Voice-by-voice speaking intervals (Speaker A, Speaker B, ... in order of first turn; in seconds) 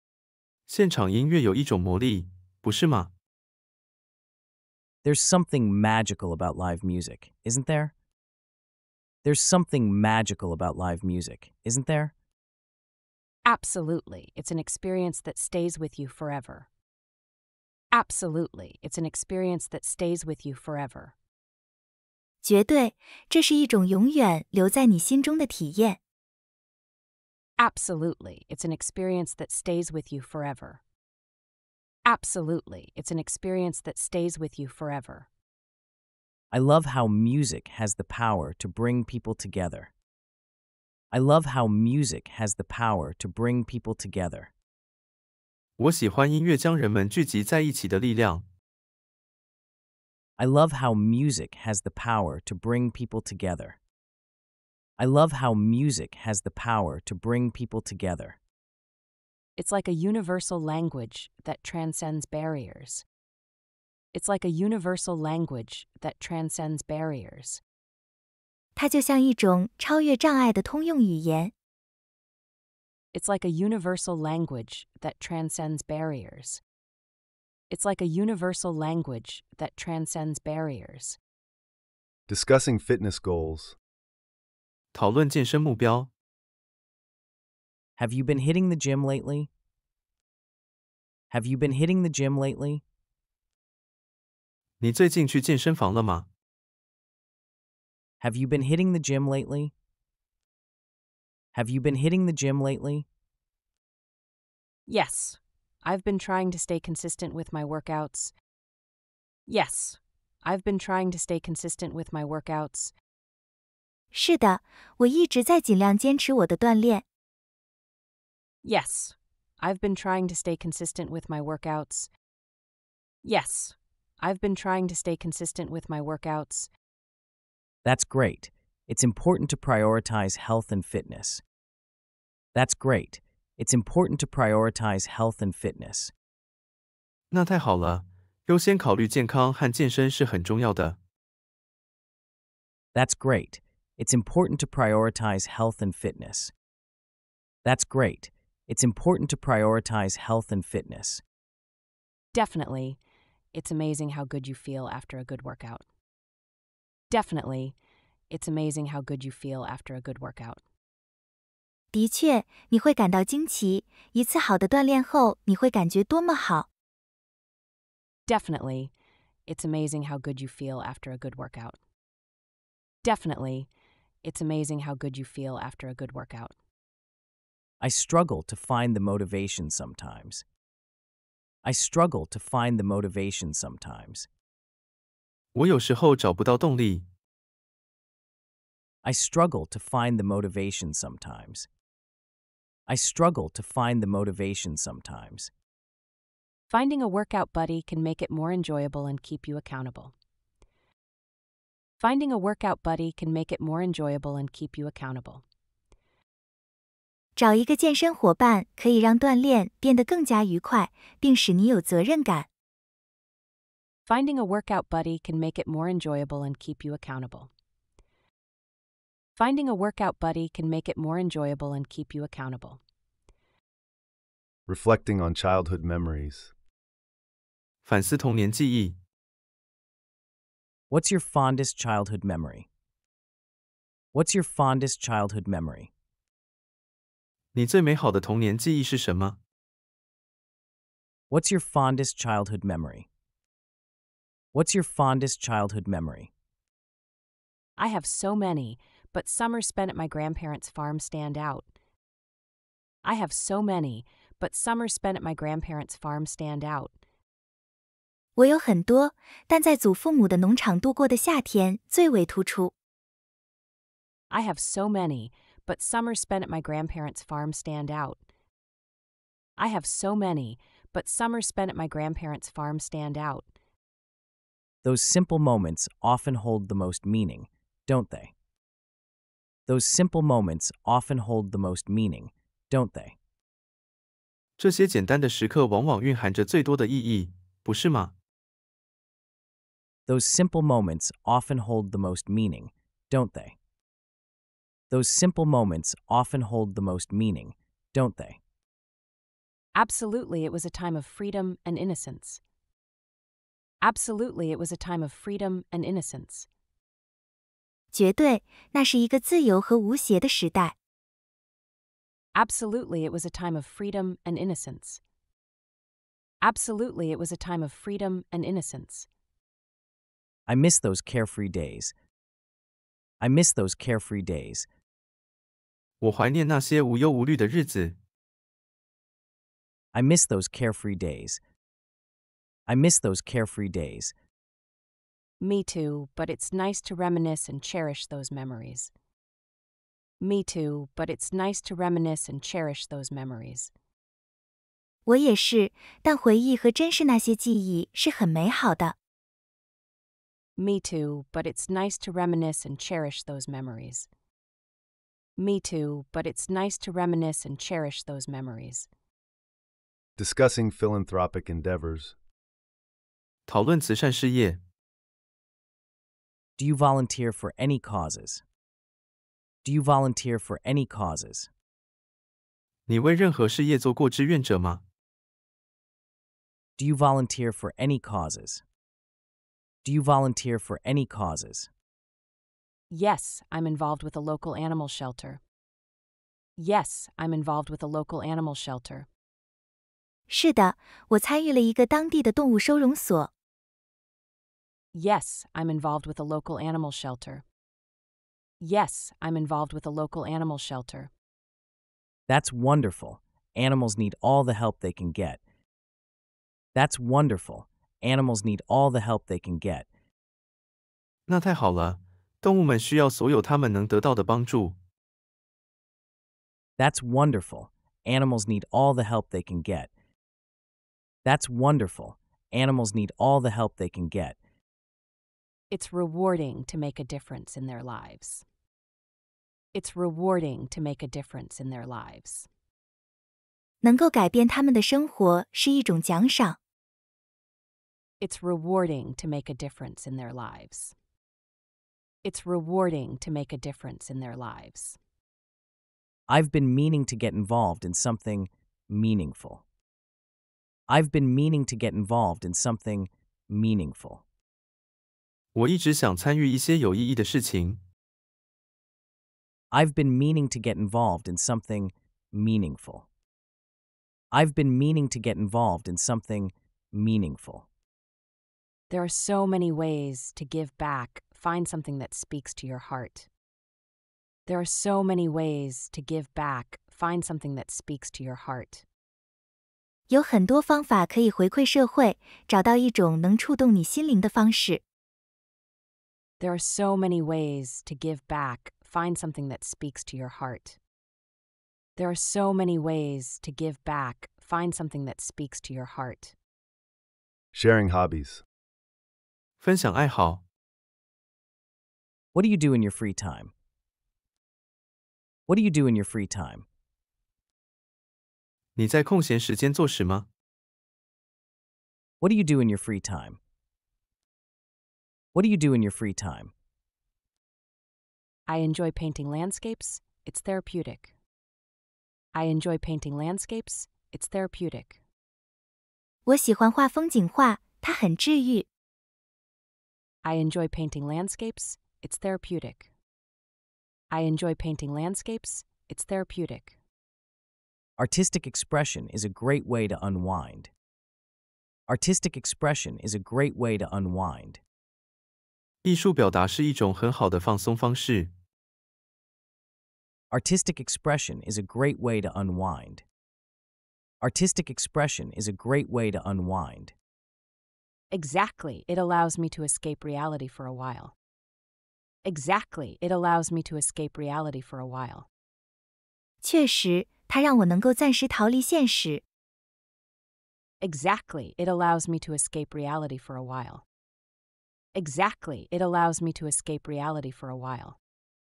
Speaker A: 0.7-3.1, 45.8-48.4, 84.9-86.1, 94.8-96.2, 137.3-141.0, 185.5-187.1, 227.8-228.9, 237.5-239.4, 284.6-288.1, 326.0-327.9, 363.5-364.6, 372.9-374.8, 411.3-414.8, 455.5-457.8, 499.6-500.4, 508.8-510.2, 545.8-548.3
Speaker B: 5.0-7.9, 9.2-12.1, 36.5-39.9, 41.1-44.5, 50.4-53.8, 55.0-58.4, 88.0-89.5, 91.3-92.8, 98.2-99.7, 101.5-103.1, 127.8-131.4, 132.5-136.1, 142.9-146.5, 147.6-151.2, 177.8-180.4, 181.6-184.3, 189.0-191.7, 192.9-195.5, 230.9-232.7, 234.1-235.9, 241.3-243.1, 244.5-246.3, 274.8-278.3, 279.7-283.1, 290.1-293.6, 294.9-298.4, 320.5-321.9, 323.2-324.7, 329.9-331.4, 332.7-334.1, 366.6-368.4, 369.6-371.5, 376.8-378.6, 379.8-381.7, 402.3-405.4, 406.7-409.9, 416.8-419.9, 421.2-424.4, 446.3-449.6, 450.9-454.2, 459.7-463.1, 464.3-467.6, 502.3-503.5, 505.5-506.6, 512.2-513.4, 515.3-516.5, 538.0-540.7, 541.9-544.6, 550.3-553.0, 554.2-556.9
Speaker C: 13.4-16.7, 17.9-21.1, 27.6-30.8, 32.0-35.3, 59.6-63.0, 64.1-67.6, 73.1-76.6, 77.7-81.2, 104.9-108.3, 109.5-112.9, 118.6-122.1, 123.2-126.7, 152.3-153.0, 153.5-155.8, 157.1-157.8, 158.3-160.6, 168.3-168.9, 169.5-171.8, 173.0-173.7, 174.2-176.5, 196.7-200.1, 202.0-205.4, 214.1-217.5, 219.3-222.8, 247.8-251.7, 253.0-256.9, 264.3-268.2, 269.6-273.5, 299.7-302.4, 303.8-306.5, 312.3-315.0, 316.4-319.1, 335.4-338.9, 340.2-343.7, 350.6-354.1, 355.4-358.9, 382.9-385.4, 386.6-389.1, 394.9-397.4, 398.6-401.1, 425.7-428.4, 429.7-432.5, 438.2-440.9, 442.2-445.0, 468.9-473.3, 474.5-478.8, 486.4-490.8, 492.0-496.3, 518.5-521.1, 522.3-525.0, 530.2-532.9, 534.1-536.7, 558.1-561.1, 562.2-565.3, 570.8-573.8, 574.9-578.0
Speaker D: 22.4-26.0, 68.8-71.5, 114.1-117.0, 161.9-166.7, 207.4-212.5, 258.4-262.7, 307.9-310.7, 345.1-348.9, 390.3-393.3, 433.8-436.6, 480.1-484.8, 526.2-528.6, 566.4-569.2
Speaker E: 82.3-83.8, 224.7-226.5, 360.2-362.2, 497.5-498.4